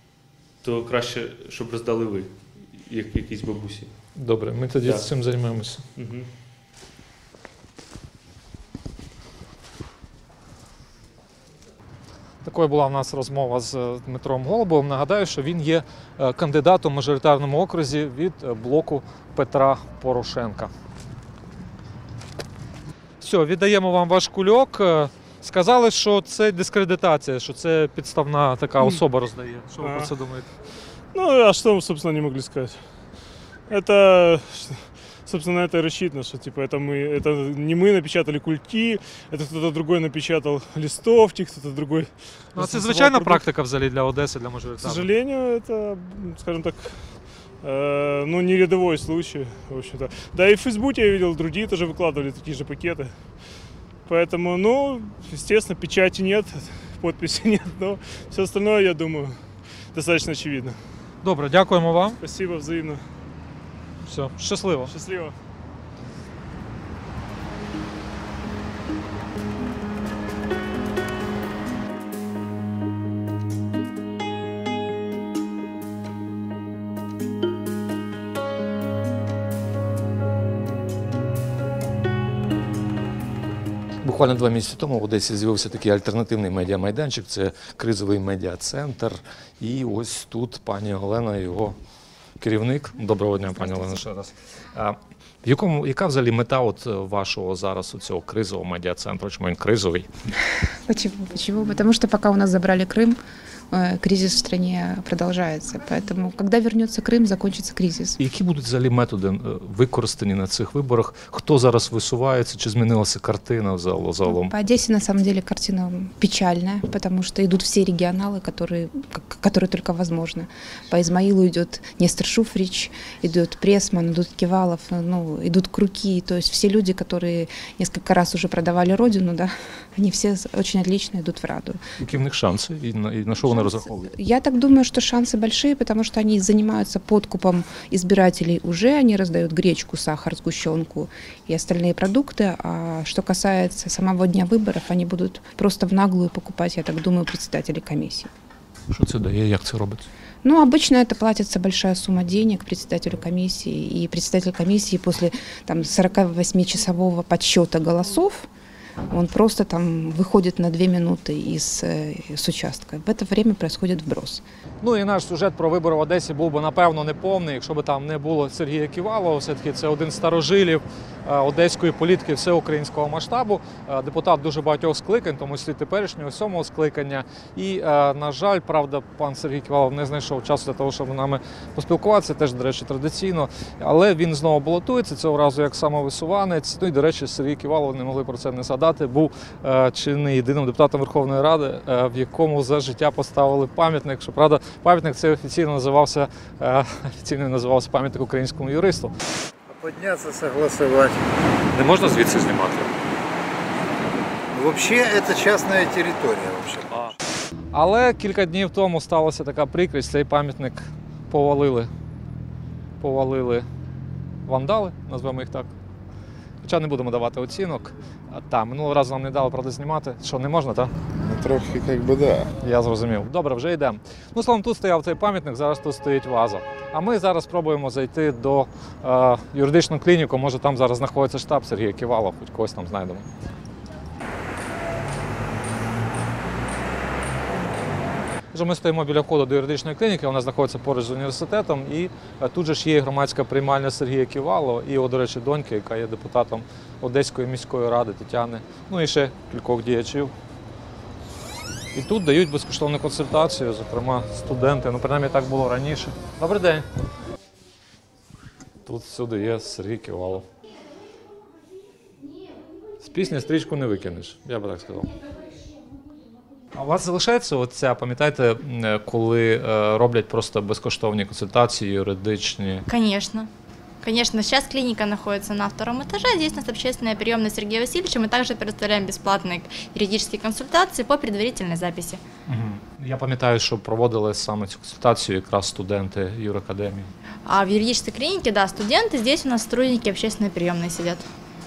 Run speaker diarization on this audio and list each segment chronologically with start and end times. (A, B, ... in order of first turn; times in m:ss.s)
0:00.6-0:03.9 A
0:04.2-0:05.8 B
0:06.0-0:06.3 A
0:12.4-0:20.7 B
0:23.2-0:30.5 B
0:29.8-0:30.1 C
0:31.1-0:32.8 C
0:33.7-0:43.4 C
0:42.5-0:45.1 B
0:44.8-0:47.1 C
0:47.6-0:53.2 C
0:54.1-0:59.4 C
0:59.9-1:00.8 C
1:01.2-1:02.2 B
1:02.2-1:03.0 C
1:04.0-1:04.9 B
1:04.9-1:05.4 C
1:24.0-1:31.8 B
1:32.4-1:40.1 B
1:40.9-1:43.2 D
1:43.7-1:48.2 D
1:48.2-1:54.5 B
1:54.3-2:11.8 D
2:12.0-2:14.1 B
2:14.1-2:28.3 D
2:28.9-2:30.1 B
2:30.4-2:38.5 D
2:39.1-2:44.4 D
2:44.8-3:19.1 B
3:19.7-3:21.2 E
3:21.7-3:22.9 B
3:24.5-3:27.1 E
3:27.7-3:31.9 B
3:33.0-3:33.7 B
3:34.5-3:35.7 B
3:36.6-3:40.9 B
3:41.2-3:42.5 E
3:42.6-3:53.3 B
3:58.5-4:10.3 B
4:11.9-4:16.9 B
4:18.8-4:20.5 B
4:23.0-4:25.1 B
4:26.7-4:32.9 B
4:32.9-4:33.5 F
4:34.0-4:42.2 F
4:42.5-4:47.1 B
4:47.5-4:51.2 F